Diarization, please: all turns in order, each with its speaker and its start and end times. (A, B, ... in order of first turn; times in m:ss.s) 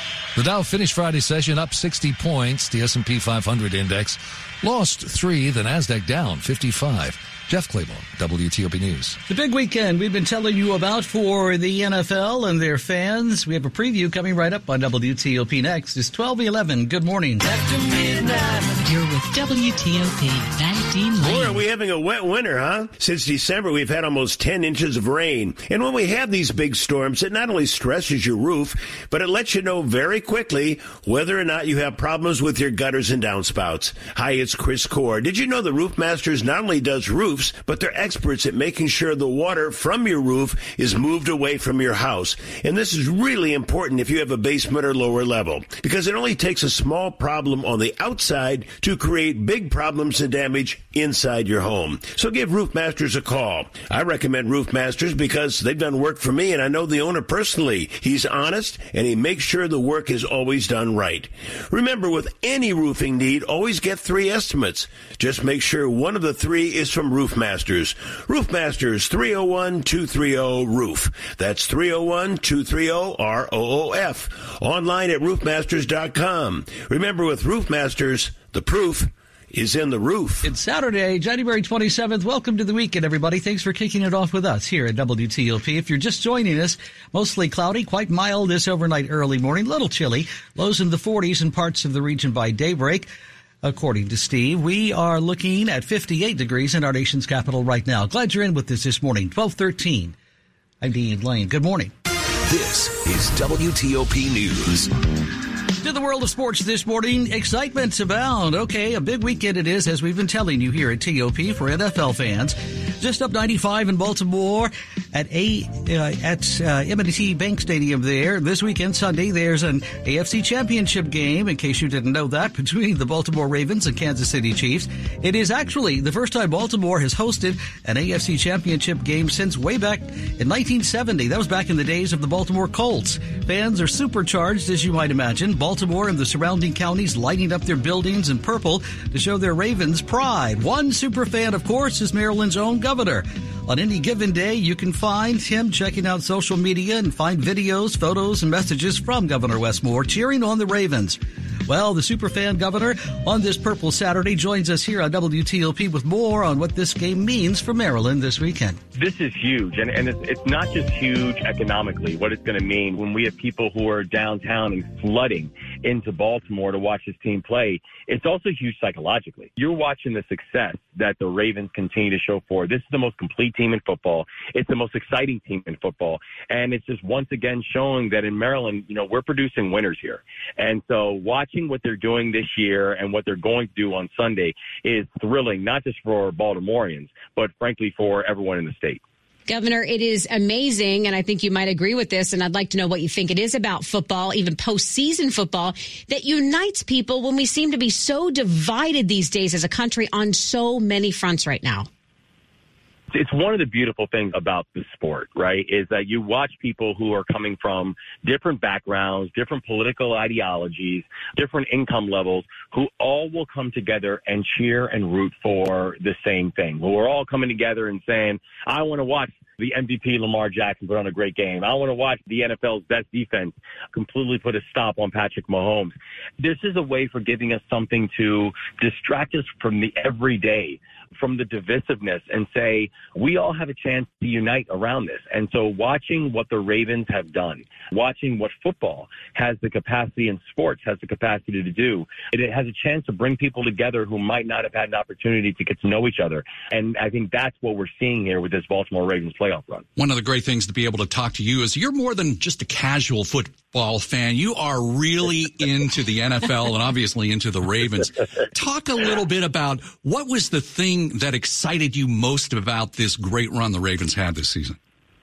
0:00.4-0:09.2 A
0:09.3-0:17.5 B
0:17.8-0:18.2 C
0:18.8-0:21.6 C
0:21.2-1:20.4 D
1:20.4-1:33.1 B
1:33.6-1:40.2 B
1:40.8-1:41.9 B
1:42.5-1:44.9 A
1:45.8-2:38.8 B
2:39.0-3:09.0 E
3:09.5-3:21.9 F
3:23.1-4:09.8 E
4:10.0-4:24.8 G